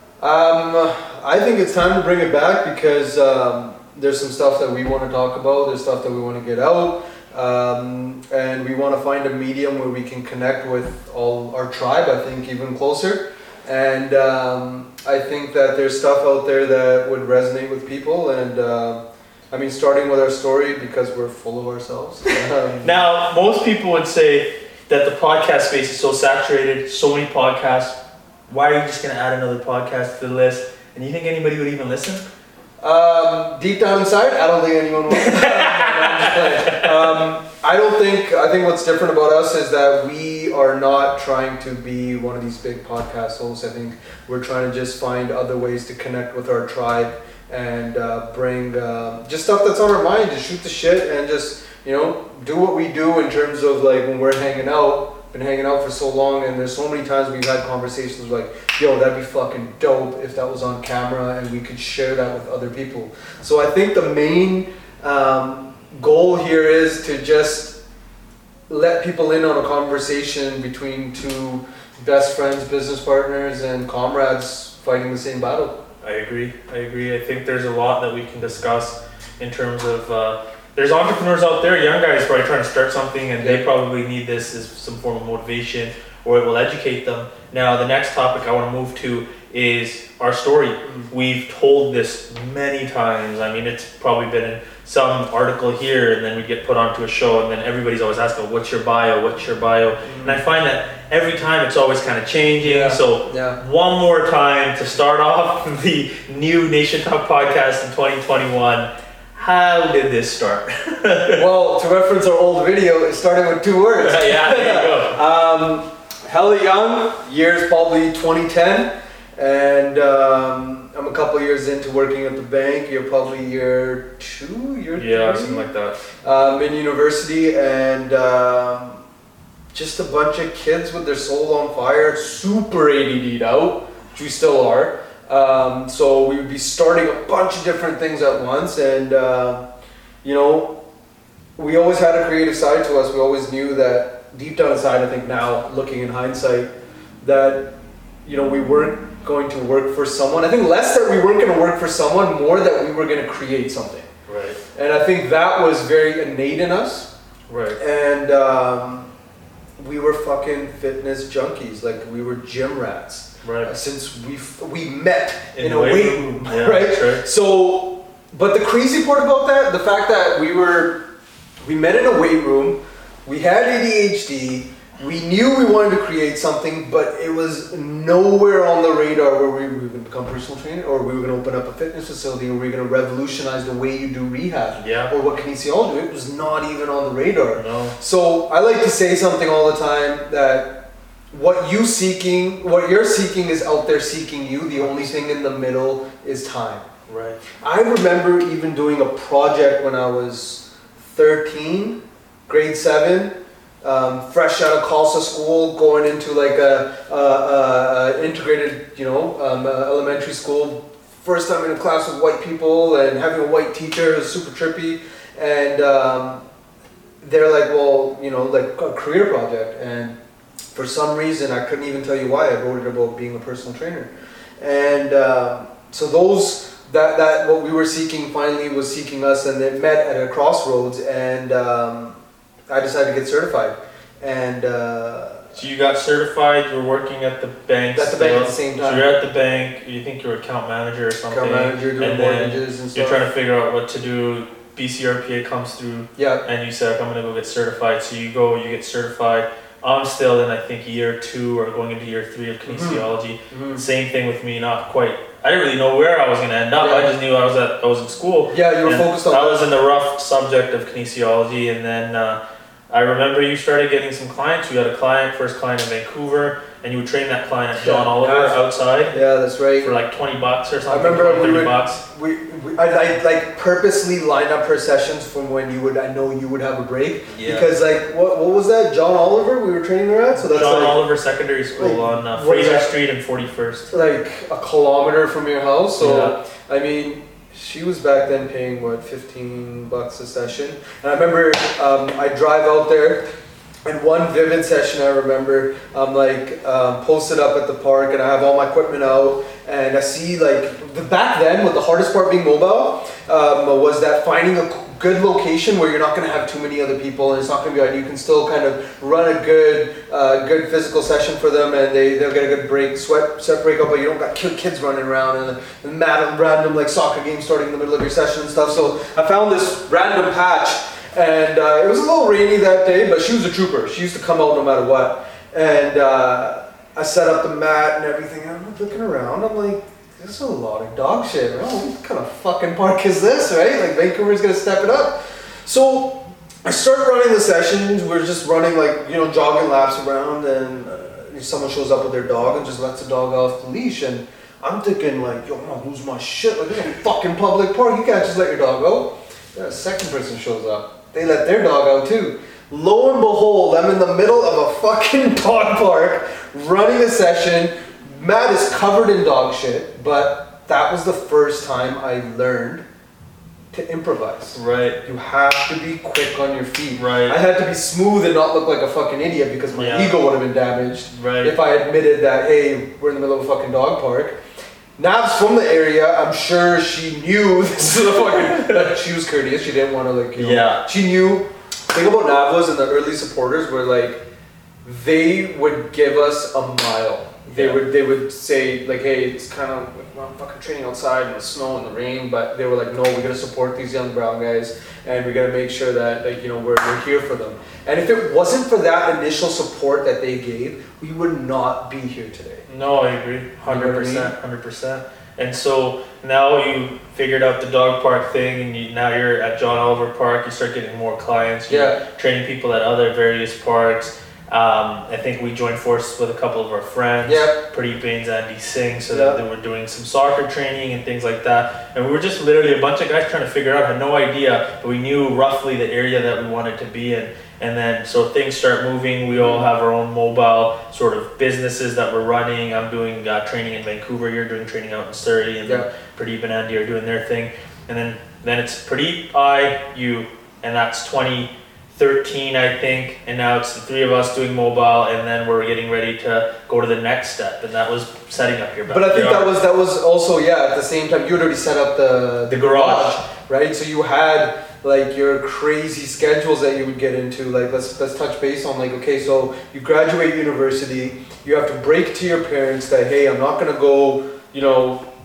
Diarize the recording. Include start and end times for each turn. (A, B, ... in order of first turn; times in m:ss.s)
0:00.2-0:22.9 A
0:22.8-0:28.0 B
0:28.5-0:32.2 B
0:32.8-1:07.8 A
0:35.1-0:37.2 B
1:08.7-1:15.8 A
1:16.0-1:51.4 B
1:30.8-1:31.1 A
1:40.0-1:40.4 A
1:42.6-1:43.6 A
1:51.4-2:05.7 A
1:54.0-1:55.2 B
2:05.0-2:06.0 B
2:06.2-2:09.0 A
2:09.7-2:19.6 A
2:20.2-2:20.8 A
2:21.6-2:26.7 A
2:27.2-2:27.7 A
2:28.2-2:34.1 A
2:34.3-2:34.6 B
2:34.7-2:37.1 A
2:37.5-2:37.8 B
2:37.8-2:39.1 A
2:39.8-2:51.0 A
2:43.4-2:43.7 B
2:45.5-2:47.2 B
2:51.6-3:16.8 A
3:04.8-3:05.1 B
3:07.5-3:08.0 B
3:17.1-3:17.4 B
3:17.6-3:36.4 A
3:37.2-3:40.2 A
3:40.7-3:52.2 A
3:52.7-3:55.5 A
3:55.5-4:22.4 B
3:57.9-3:59.1 A
4:01.3-4:03.3 A
4:06.2-4:06.4 A
4:12.6-4:13.8 A
4:16.8-4:17.1 A
4:18.5-4:19.7 A
4:22.9-4:29.2 B
4:27.7-4:29.9 A
4:29.8-4:32.0 B
4:30.9-4:41.0 A
4:37.3-4:37.7 B
4:40.5-4:43.9 B
4:41.7-4:42.9 A
4:43.9-4:53.3 A
4:46.0-4:46.4 B
4:53.8-6:02.8 A
6:03.7-6:14.4 A
6:04.5-6:05.0 B
6:06.9-6:07.4 B
6:09.7-6:10.2 B
6:11.1-6:11.6 B
6:15.0-6:24.2 A
6:17.8-6:18.9 B
6:20.4-6:20.8 B
6:24.8-6:42.7 A
6:27.5-6:27.8 B
6:42.7-7:29.5 B
6:43.6-6:44.3 A
6:51.7-6:52.0 A
6:57.2-6:57.6 A
6:59.1-6:59.4 A
7:09.4-7:09.7 A
7:28.8-7:45.0 A
7:32.5-7:33.2 B